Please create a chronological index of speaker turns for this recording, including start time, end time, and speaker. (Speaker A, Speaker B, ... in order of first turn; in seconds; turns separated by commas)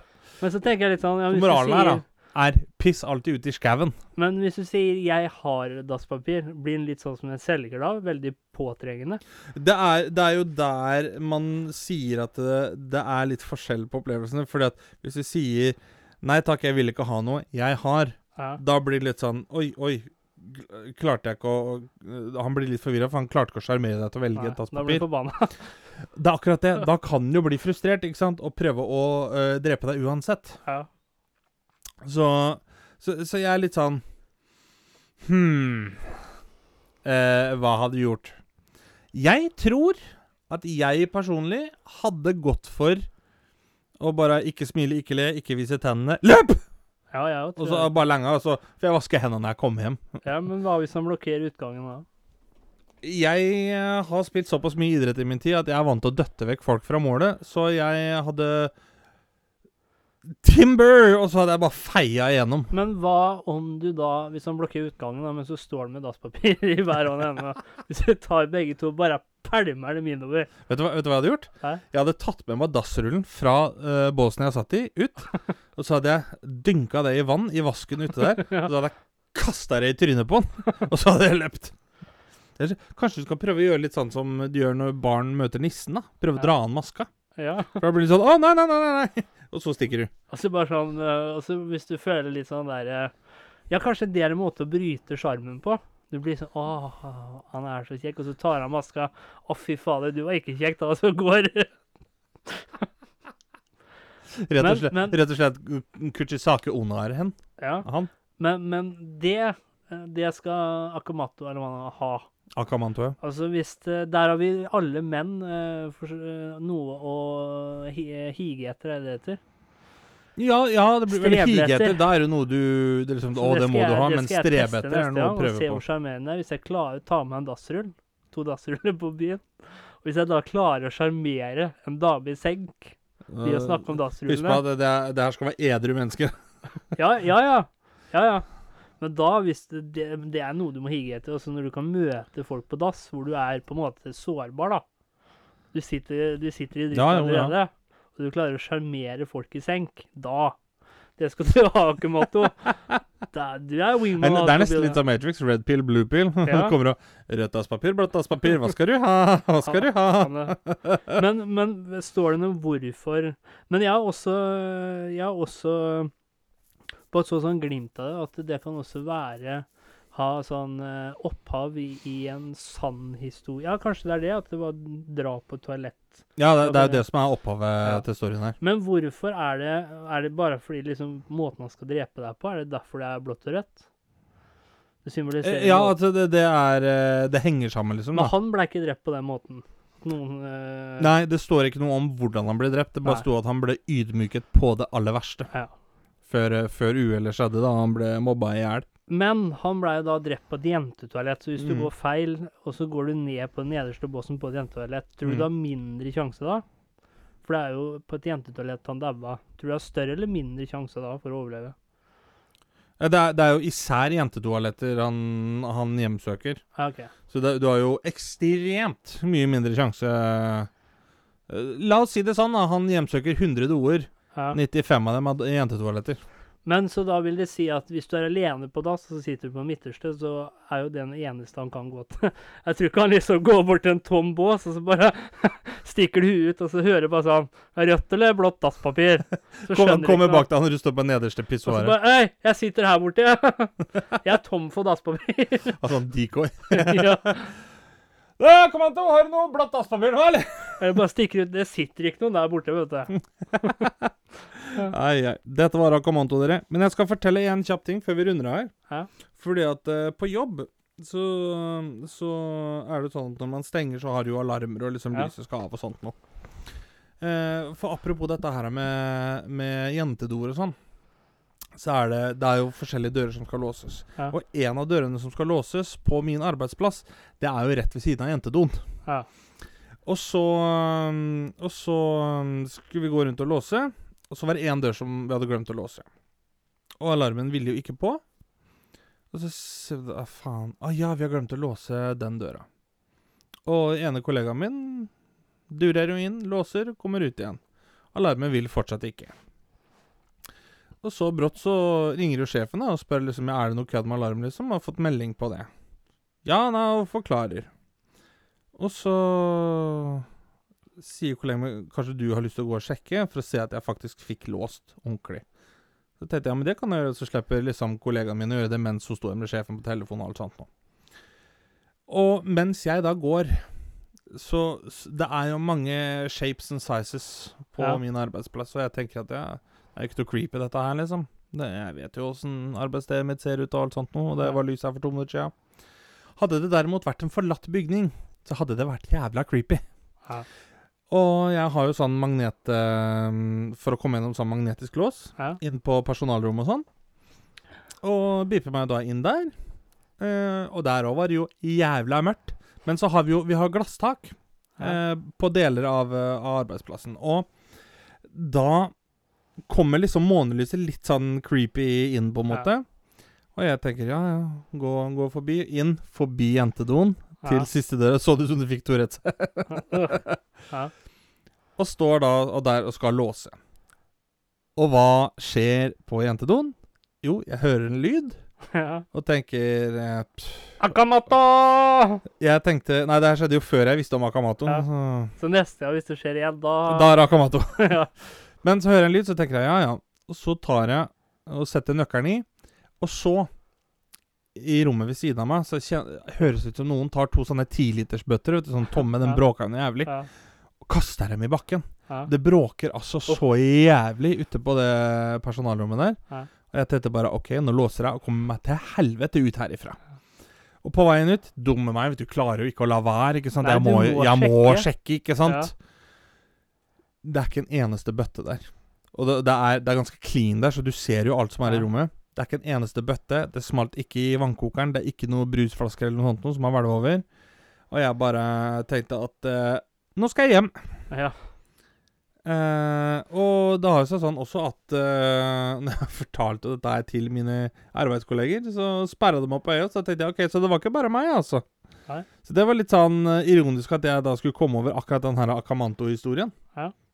Speaker A: 0.4-2.0, Speaker B: 1.3-4.0, Speaker A: 4.2-9.2, Speaker B: 9.6-25.1, Speaker A: 24.4-25.6, Speaker B: 26.1-30.6, Speaker B: 32.0-34.0, Speaker B: 35.2-36.1, Speaker B: 37.0-38.4, Speaker B: 39.1-43.1, Speaker B: 44.0-46.6, Speaker A: 47.1-48.0, Speaker B: 47.6-50.2, Speaker A: 50.2-52.1, Speaker B: 53.0-58.7, Speaker B: 60.3-62.7, Speaker A: 62.7-70.5, Speaker B: 70.7-81.7, Speaker A: 78.4-78.7, Speaker B: 82.6-87.1, Speaker A: 87.4-87.8, Speaker B: 87.8-90.1, Speaker A: 90.3-93.1, Speaker A: 93.7-101.7, Speaker A: 102.5-102.8, Speaker B: 104.4-108.1, Speaker A: 104.6-105.2, Speaker A: 107.6-107.9, Speaker A: 108.4-112.2, Speaker B: 112.5-113.2, Speaker A: 113.2-119.4, Speaker B: 120.4-125.8, Speaker A: 121.1-122.0, Speaker A: 123.3-129.4, Speaker A: 130.0-134.6, Speaker B: 133.3-136.3, Speaker A: 136.9-138.4, Speaker A: 139.0-144.8, Speaker A: 145.7-150.6, Speaker B: 146.9-147.6, Speaker A: 151.2-152.8, Speaker A: 153.3-155.0, Speaker B: 154.2-161.2, Speaker A: 156.4-156.8, Speaker A: 159.6-160.6, Speaker A: 161.1-166.1, Speaker A: 167.1-177.1, Speaker B: 176.4-178.6, Speaker A: 178.6-183.8, Speaker A: 185.0-186.0, Speaker B: 185.4-188.3, Speaker A: 188.1-191.1, Speaker B: 191.0-195.5, Speaker B: 196.3-198.9, Speaker A: 199.1-206.7, Speaker B: 201.6-201.9, Speaker A: 207.4-211.8, Speaker B: 213.0-216.6, Speaker A: 216.8-217.1, Speaker B: 217.3-220.7, Speaker B: 221.5-226.2, Speaker A: 226.7-240.5, Speaker B: 239.6-242.0, Speaker A: 241.7-245.8, Speaker B: 245.8-247.3, Speaker A: 246.7-247.5, Speaker B: 248.4-250.9, Speaker A: 250.8-253.9, Speaker B: 253.5-254.1, Speaker B: 254.6-258.7, Speaker B: 259.4-266.2, Speaker B: 267.2-270.8, Speaker B: 271.8-278.8, Speaker B: 280.1-286.1, Speaker B: 287.0-288.2, Speaker B: 289.3-292.6, Speaker B: 293.7-295.1, Speaker B: 295.7-297.6, Speaker B: 298.1-299.4, Speaker B: 301.0-305.7, Speaker B: 306.4-307.7, Speaker B: 308.8-310.2, Speaker B: 311.0-315.4, Speaker B: 316.2-320.7, Speaker B: 322.1-323.6, Speaker B: 324.3-335.5, Speaker B: 336.4-339.8, Speaker B: 341.1-346.9, Speaker B: 348.0-349.5, Speaker B: 350.2-357.5, Speaker B: 358.3-358.9, Speaker B: 359.7-362.9, Speaker B: 363.6-370.4, Speaker A: 367.4-367.7, Speaker A: 369.7-370.2, Speaker B: 371.8-373.6, Speaker B: 374.8-378.4, Speaker A: 378.7-379.1, Speaker B: 379.1-381.0, Speaker A: 380.8-382.2, Speaker B: 382.3-385.3, Speaker A: 385.4-387.2, Speaker B: 386.9-388.0, Speaker A: 387.8-388.1, Speaker B: 388.6-392.5, Speaker B: 393.0-393.5, Speaker B: 394.6-400.1, Speaker B: 400.8-406.2, Speaker B: 406.7-410.0, Speaker B: 410.8-415.7, Speaker A: 413.6-414.9, Speaker A: 415.5-415.7, Speaker B: 417.2-427.2, Speaker B: 427.9-430.8, Speaker A: 431.1-431.4, Speaker B: 432.4-441.6, Speaker B: 442.4-446.5